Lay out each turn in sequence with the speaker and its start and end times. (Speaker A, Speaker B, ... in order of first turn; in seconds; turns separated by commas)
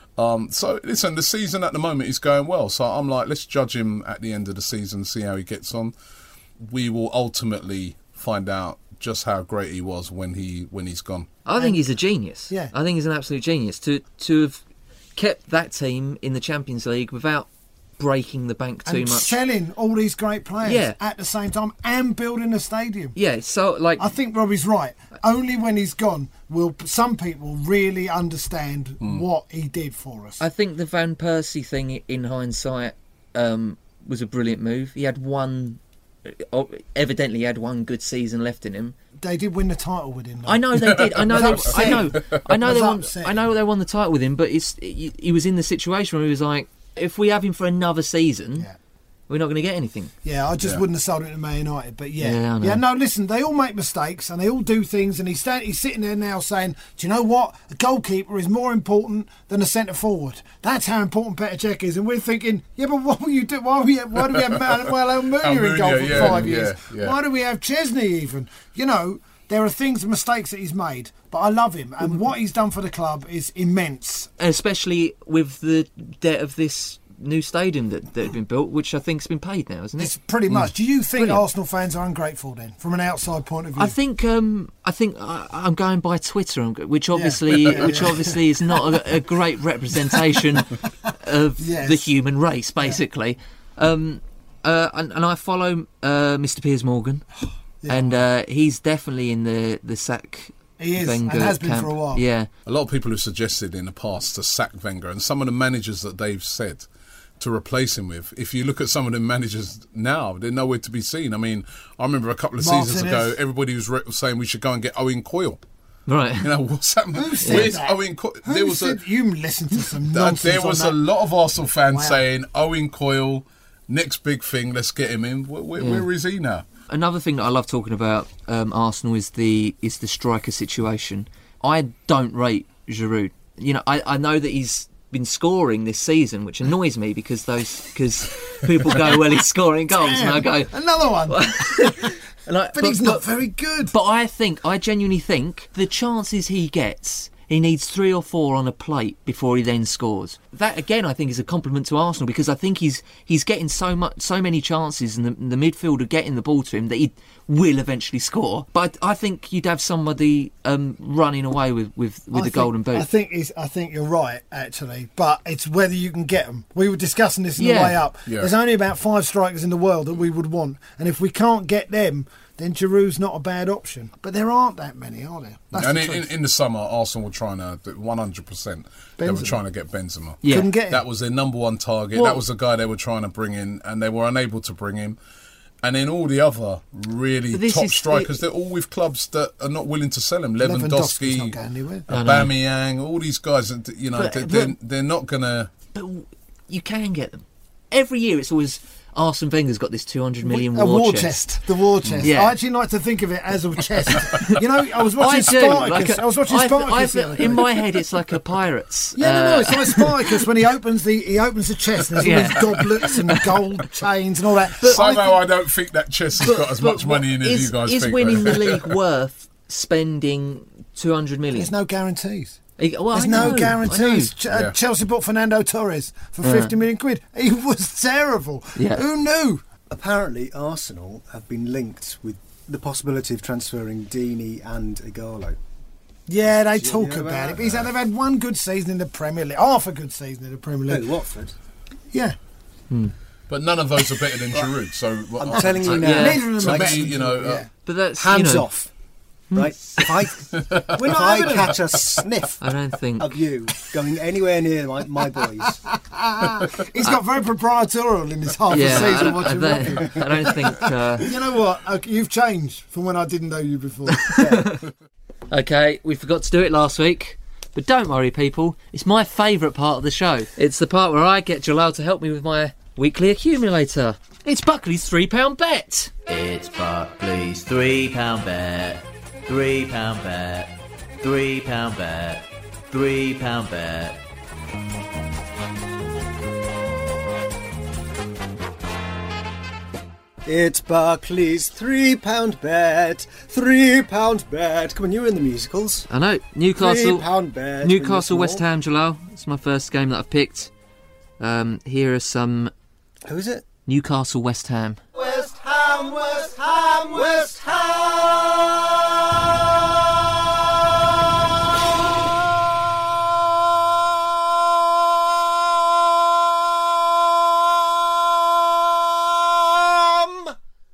Speaker A: 0.2-5.9, Speaker A: 6.6-11.3, Speaker B: 11.4-14.6, Speaker C: 11.5-11.8, Speaker B: 15.2-19.4, Speaker C: 18.9-23.1, Speaker B: 20.6-21.0, Speaker B: 23.1-24.1, Speaker C: 24.0-30.4, Speaker B: 30.4-38.9, Speaker C: 39.2-43.4, Speaker B: 40.5-48.7, Speaker A: 41.2-42.0, Speaker B: 49.3-50.1, Speaker C: 50.2-74.3, Speaker B: 52.2-52.8, Speaker A: 65.3-67.2, Speaker B: 74.4-80.1, Speaker C: 80.0-83.9, Speaker B: 81.2-81.5, Speaker B: 83.8-97.2, Speaker C: 87.1-88.9, Speaker C: 91.6-92.1, Speaker C: 97.8-98.2, Speaker B: 97.9-102.5, Speaker C: 100.8-102.2, Speaker A: 102.7-106.9, Speaker A: 107.4-115.6, Speaker C: 112.6-113.3, Speaker B: 116.1-116.5, Speaker A: 116.4-119.0, Speaker C: 117.1-121.0, Speaker B: 117.4-117.7, Speaker A: 120.1-126.6, Speaker C: 121.9-122.2, Speaker B: 125.8-126.0, Speaker B: 126.9-143.3, Speaker C: 139.9-142.2, Speaker C: 142.7-143.9, Speaker B: 143.9-163.1, Speaker C: 162.3-176.3, Speaker B: 167.6-168.0, Speaker A: 168.3-168.5, Speaker A: 175.7-185.2, Speaker C: 179.2-179.6, Speaker B: 180.4-180.7, Speaker C: 180.4-181.0, Speaker B: 182.1-182.4, Speaker A: 185.8-195.7, Speaker B: 187.5-188.4, Speaker C: 190.6-192.0, Speaker B: 192.1-192.5, Speaker B: 194.1-194.8, Speaker B: 195.9-201.4, Speaker C: 200.4-207.8, Speaker A: 202.0-202.3, Speaker B: 202.2-202.6, Speaker B: 205.2-210.4, Speaker C: 209.2-215.3, Speaker B: 212.2-213.6, Speaker B: 214.8-215.3, Speaker A: 214.8-218.9, Speaker B: 216.4-221.7, Speaker C: 221.5-222.6, Speaker B: 222.8-224.3, Speaker C: 223.1-229.6, Speaker A: 224.5-224.8, Speaker B: 226.4-226.7, Speaker B: 228.8-229.0, Speaker D: 229.9-235.6, Speaker C: 236.3-241.1, Speaker D: 236.5-237.9, Speaker D: 240.9-241.5, Speaker A: 243.5-247.7, Speaker D: 245.3-247.1, Speaker C: 245.6-247.7, Speaker B: 245.9-246.4, Speaker B: 247.8-248.7, Speaker D: 248.2-248.9, Speaker B: 249.5-250.2, Speaker D: 249.5-252.6, Speaker A: 250.6-250.9, Speaker C: 250.9-251.8, Speaker B: 252.6-253.4, Speaker D: 253.2-255.8, Speaker C: 256.1-264.4, Speaker B: 258.7-261.3, Speaker B: 264.2-264.9, Speaker D: 264.4-264.7, Speaker B: 265.5-276.1, Speaker E: 276.3-284.2, Speaker D: 290.4-296.1, Speaker B: 296.1-297.3, Speaker D: 296.8-298.6, Speaker B: 297.8-300.7, Speaker B: 301.4-302.7, Speaker D: 303.2-303.6, Speaker B: 303.9-305.0, Speaker D: 305.1-308.9, Speaker D: 316.1-316.9, Speaker D: 317.5-320.5